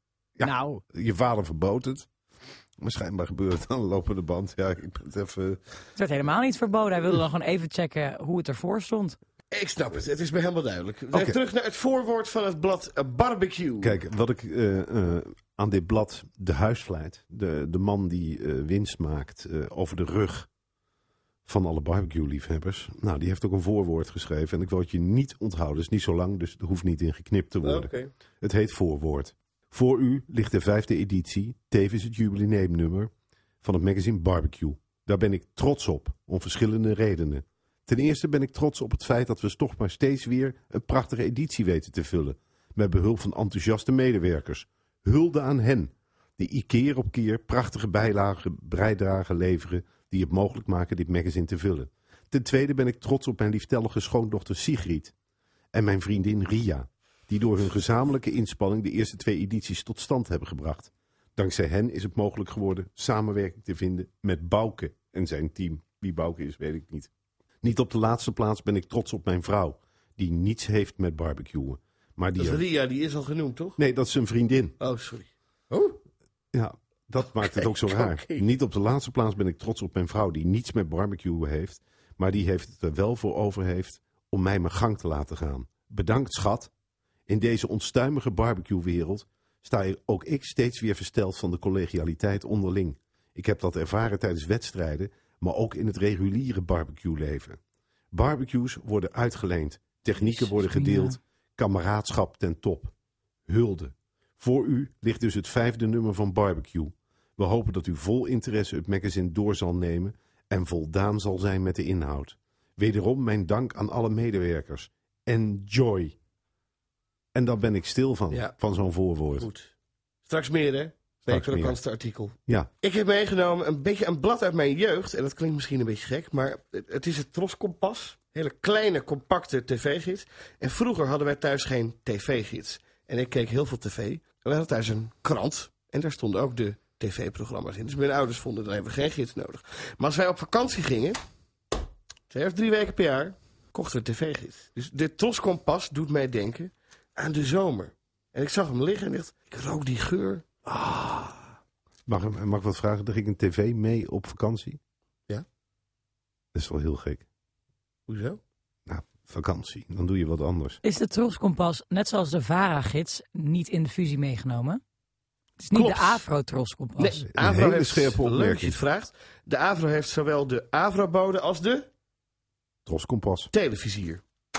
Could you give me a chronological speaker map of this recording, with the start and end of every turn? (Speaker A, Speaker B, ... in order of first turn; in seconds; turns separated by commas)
Speaker A: 0.4-2.1, Speaker B: 0.4-0.8, Speaker A: 2.8-5.6, Speaker B: 6.0-9.2, Speaker C: 9.5-14.0, Speaker A: 11.1-11.4, Speaker A: 13.8-20.5, Speaker A: 21.5-27.9, Speaker C: 27.6-28.1, Speaker A: 28.4-33.1, Speaker A: 33.6-55.1, Speaker A: 55.7-67.1, Speaker A: 67.6-72.6, Speaker C: 72.4-73.8, Speaker A: 73.8-74.8, Speaker C: 74.8-76.0, Speaker A: 76.5-86.7, Speaker C: 77.4-78.5, Speaker A: 87.3-97.6, Speaker A: 98.1-102.9, Speaker B: 100.2-101.2, Speaker A: 103.5-116.2, Speaker A: 117.3-119.5, Speaker C: 119.4-119.7, Speaker C: 120.2-141.2, Speaker A: 121.3-121.8, Speaker C: 142.3-151.4, Speaker A: 152.1-154.8, Speaker A: 156.5-157.2, Speaker C: 158.1-158.4, Speaker A: 158.9-160.8, Speaker B: 160.8-164.8, Speaker B: 165.6-167.2, Speaker C: 165.7-166.2, Speaker C: 167.0-171.9, Speaker A: 167.3-168.8, Speaker A: 172.9-173.5, Speaker C: 173.5-174.2